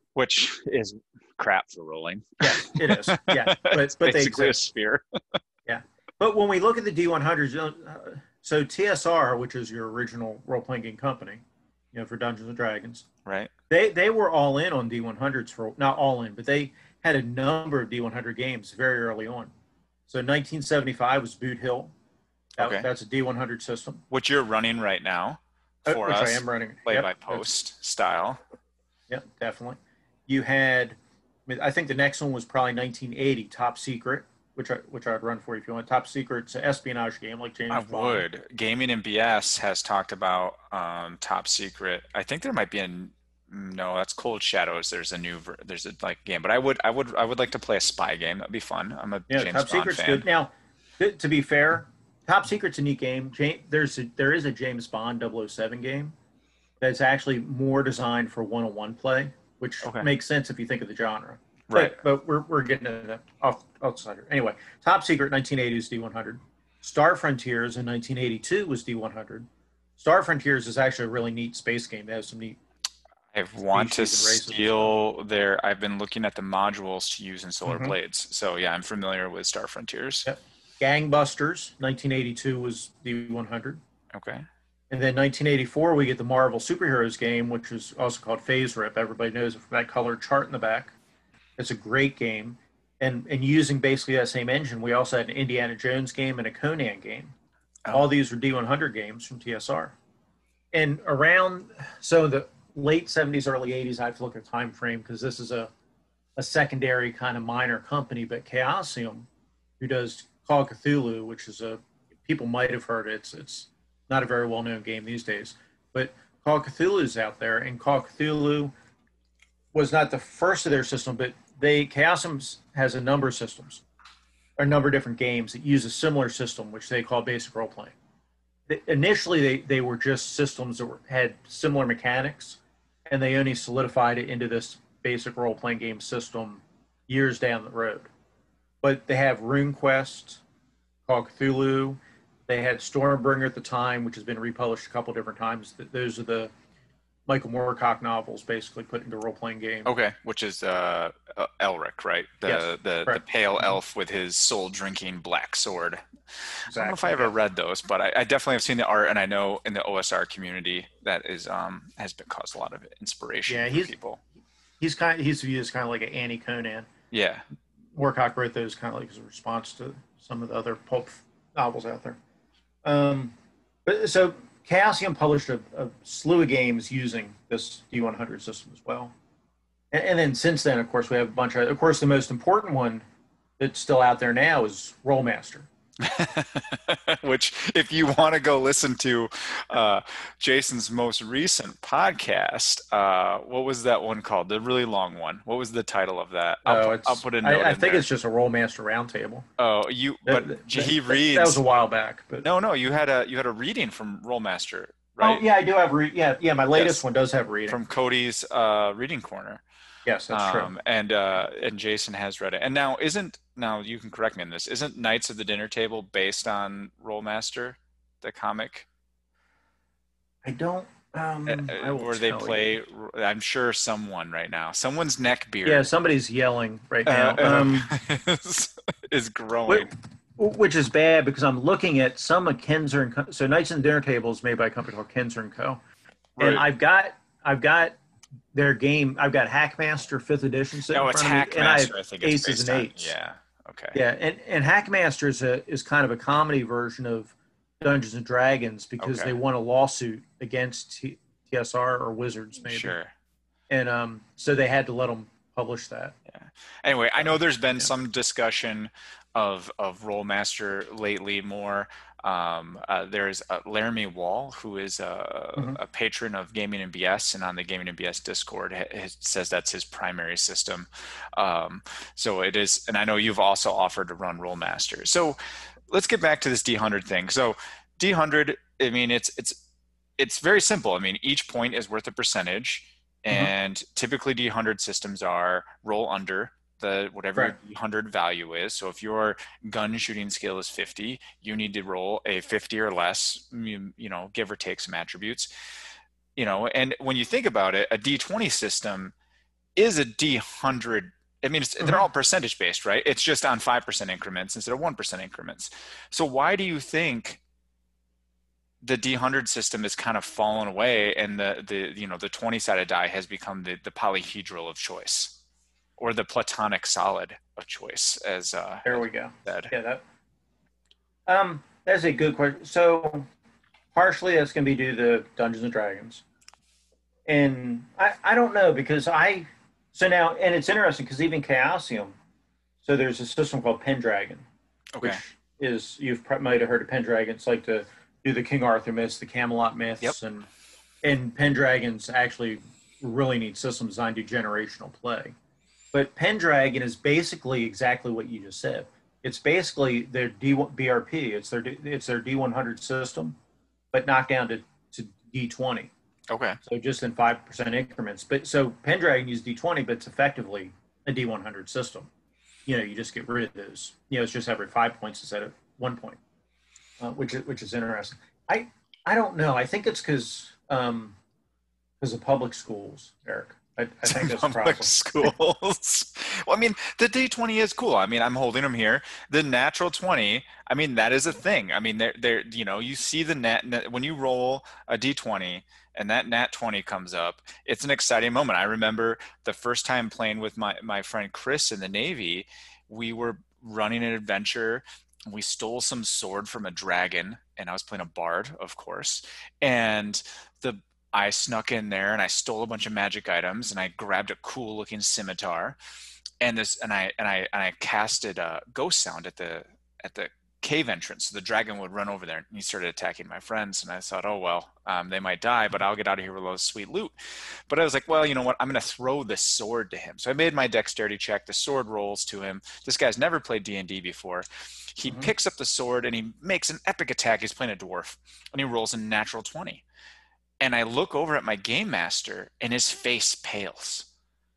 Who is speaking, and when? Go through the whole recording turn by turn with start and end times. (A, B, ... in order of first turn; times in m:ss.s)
0:00.2-0:05.0 A
0:02.4-0:04.6 B
0:05.7-0:13.1 B
0:13.2-0:13.5 A
0:13.7-0:19.5 B
0:20.1-0:21.9 B
0:22.6-0:24.0 B
0:22.6-0:22.9 A
0:24.1-0:28.4 A
0:25.9-0:27.5 B
0:29.1-0:38.2 B
0:37.7-0:50.2 A
0:49.3-0:56.2 B
0:56.8-1:09.5 B
0:59.8-1:00.1 A
1:01.7-1:02.0 A
1:10.0-1:12.6 B
1:13.3-1:20.3 A
1:13.7-1:14.9 B
1:17.6-1:17.9 B
1:20.2-1:23.8 B
1:24.1-1:24.5 A
1:24.9-1:31.0 B
1:31.6-1:37.4 B
1:37.9-1:40.0 B
1:40.7-1:45.7 B
1:46.4-1:49.3 B
1:49.8-1:58.7 B
1:59.7-2:03.8 B
2:04.6-2:08.0 B
2:08.7-2:18.1 B
2:18.8-2:20.4 B
2:21.1-2:26.5 B
2:27.3-2:29.9 B
2:29.9-2:44.2 A
2:32.4-2:33.8 B
2:36.7-2:37.3 B
2:43.5-2:43.9 B
2:44.8-2:46.9 B
2:47.1-2:47.4 A
2:48.0-2:52.2 B
2:52.8-2:53.3 B
2:53.8-2:59.1 B
2:59.9-3:03.0 B
3:03.6-3:05.7 B
3:06.0-3:18.0 A
3:16.6-3:19.5 B
3:19.6-3:21.6 A
3:20.2-3:22.5 B
3:22.4-3:25.4 A
3:25.2-3:27.8 B
3:26.8-3:27.0 A
3:27.7-3:29.6 A
3:30.1-3:30.7 B
3:30.3-3:38.9 A
3:40.4-3:42.8 B
3:41.5-3:45.9 A
3:45.6-3:47.9 B
3:47.1-3:49.9 A
3:49.7-3:55.8 B
3:56.4-3:56.6 A
3:56.4-3:58.0 B
3:58.5-4:03.1 B
4:00.9-4:04.0 A
4:03.9-4:12.9 B
4:09.0-4:09.3 A
4:12.6-4:13.1 A
4:13.7-4:16.2 B
4:16.3-4:35.4 A
4:17.2-4:17.9 B
4:35.9-4:39.6 A
4:40.2-4:55.5 A
4:56.4-4:59.1 A
4:59.8-5:07.4 A
5:01.8-5:02.0 B
5:08.8-5:15.4 A
5:16.0-5:19.7 A
5:18.8-5:20.0 B
5:21.3-5:23.3 B
5:23.9-5:26.2 B
5:27.3-5:32.2 B
5:32.8-5:34.4 B
5:35.0-5:35.2 A
5:35.0-5:40.5 B
5:41.0-5:45.4 B
5:45.9-5:53.4 B
5:53.9-5:55.9 B
5:56.3-5:56.6 A
5:56.6-6:02.1 B
6:02.7-6:06.2 B
6:07.0-6:11.2 B
6:12.0-6:15.3 B
6:14.0-6:45.8 A
6:46.4-7:09.8 A
7:05.0-7:05.3 B
7:10.6-7:14.1 A